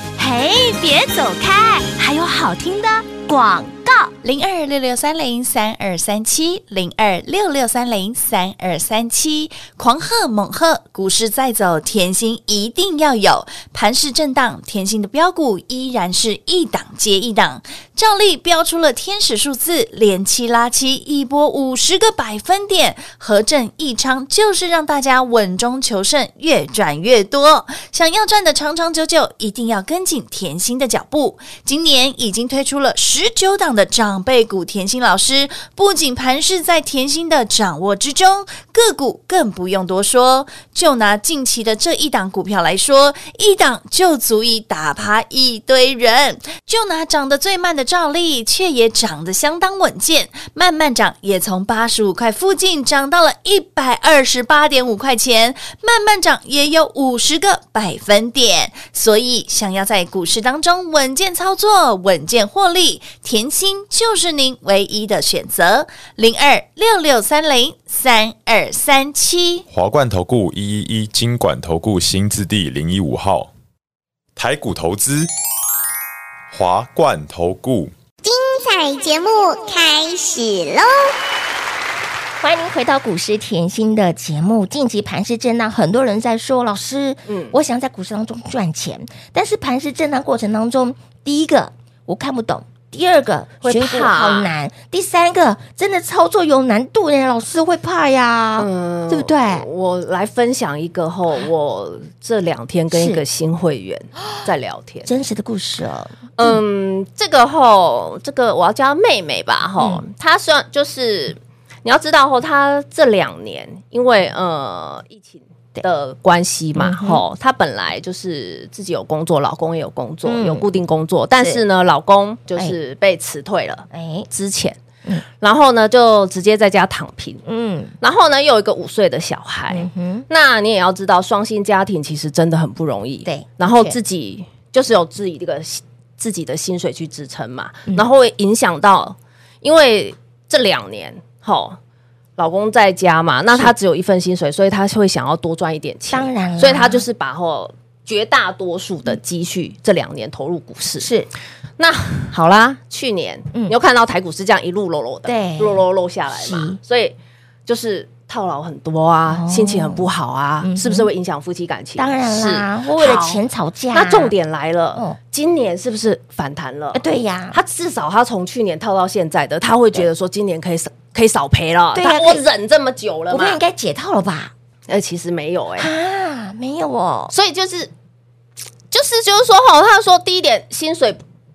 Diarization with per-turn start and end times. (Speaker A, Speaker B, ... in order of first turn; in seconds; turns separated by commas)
Speaker A: 0.8-4.1, Speaker B: 4.2-69.6, Speaker C: 69.7-73.5, Speaker C: 74.3-75.3, Speaker C: 76.5-77.9, Speaker D: 78.2-81.1, Speaker A: 82.4-99.7, Speaker E: 87.3-87.5, Speaker E: 93.6-94.5, Speaker E: 98.6-105.1, Speaker A: 102.9-103.2, Speaker A: 105.0-106.6, Speaker E: 106.4-124.8, Speaker A: 116.8-117.2, Speaker A: 120.2-120.6, Speaker A: 123.9-124.3, Speaker E: 125.4-127.4, Speaker A: 127.5-127.9, Speaker E: 128.0-141.8, Speaker A: 129.7-130.2, Speaker A: 133.2-134.0, Speaker E: 142.4-151.1, Speaker A: 146.1-147.0, Speaker A: 151.0-151.3, Speaker E: 151.8-157.2, Speaker A: 155.2-156.8, Speaker E: 157.7-163.4, Speaker A: 159.3-160.1, Speaker A: 160.6-161.1, Speaker A: 162.0-164.3, Speaker E: 163.9-173.6, Speaker A: 166.9-167.6, Speaker A: 171.9-172.4, Speaker A: 173.3-174.5, Speaker E: 174.9-175.9, Speaker A: 175.8-177.3, Speaker E: 177.3-177.9, Speaker E: 178.9-181.2